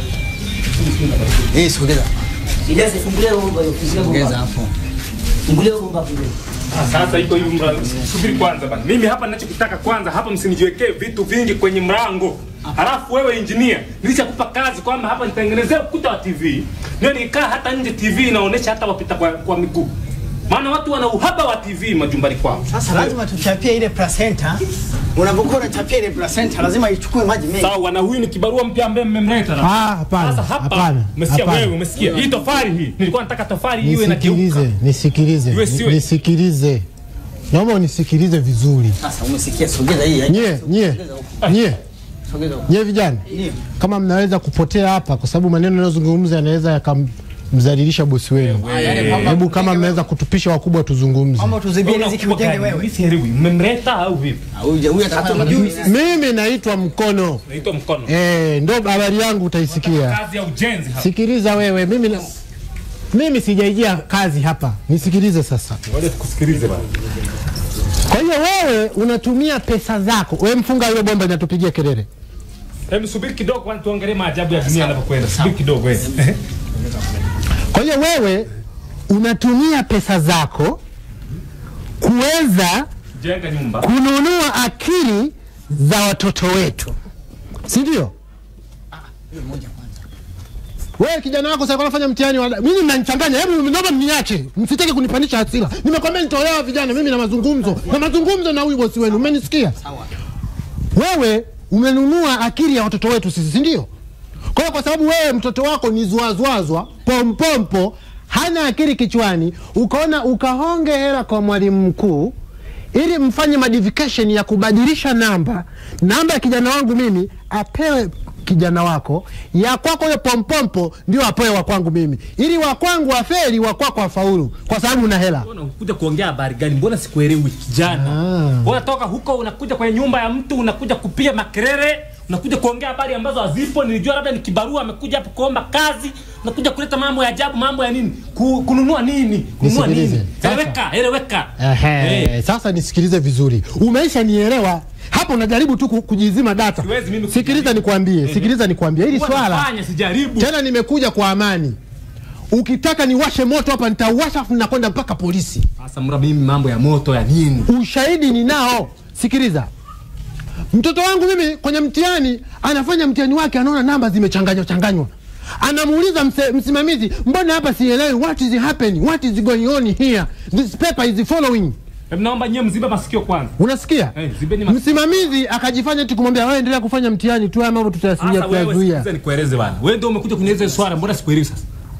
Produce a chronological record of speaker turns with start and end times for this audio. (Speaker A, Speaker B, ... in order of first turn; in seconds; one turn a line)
Speaker A: 1.5-2.1
Speaker B: 2.7-4.5
Speaker A: 4.0-4.5
Speaker B: 5.5-6.3
Speaker C: 6.7-19.9
Speaker C: 20.5-22.6
Speaker A: 22.7-24.6
Speaker A: 25.1-27.7
Speaker C: 27.6-34.6
Speaker D: 29.6-31.7
Speaker D: 33.8-36.9
Speaker C: 35.5-36.0
Speaker D: 37.5-39.0
Speaker B: 39.0-41.4
Speaker D: 40.3-41.8
Speaker B: 42.3-42.6
Speaker D: 42.7-43.2
Speaker A: 43.3-43.6
Speaker D: 43.8-51.5
Speaker C: 48.6-49.4
Speaker B: 48.7-49.7
Speaker A: 48.7-50.0
Speaker A: 51.4-52.9
Speaker C: 51.8-54.4
Speaker B: 54.6-55.9
Speaker A: 54.8-55.9
Speaker D: 55.8-57.4
Speaker C: 57.5-58.1
Speaker D: 58.0-60.2
Speaker C: 59.7-61.1
Speaker D: 61.0-62.3
Speaker D: 63.1-65.8
Speaker C: 65.9-66.8
Speaker D: 68.1-72.1
Speaker C: 72.9-76.4
Speaker A: 74.6-75.5
Speaker D: 77.7-78.5
Speaker D: 79.1-80.8
Speaker D: 82.0-82.9
Speaker C: 83.2-83.9
Speaker D: 83.8-86.9
Speaker D: 87.7-88.1
Speaker D: 91.0-99.8
Speaker D: 100.9-103.9
Speaker D: 104.5-112.3
Speaker D: 112.9-125.5
Speaker C: 125.4-142.3
Speaker D: 127.9-128.7
Speaker D: 139.6-140.8
Speaker D: 141.6-149.7
Speaker C: 146.8-148.5
Speaker C: 149.1-150.5
Speaker D: 150.4-151.8
Speaker D: 152.5-155.6
Speaker C: 155.8-157.7
Speaker D: 157.7-159.7
Speaker D: 160.7-171.8
Speaker C: 172.1-173.5
Speaker D: 173.6-174.1
Speaker C: 174.1-175.3
Speaker D: 174.7-179.1
Speaker C: 178.2-181.6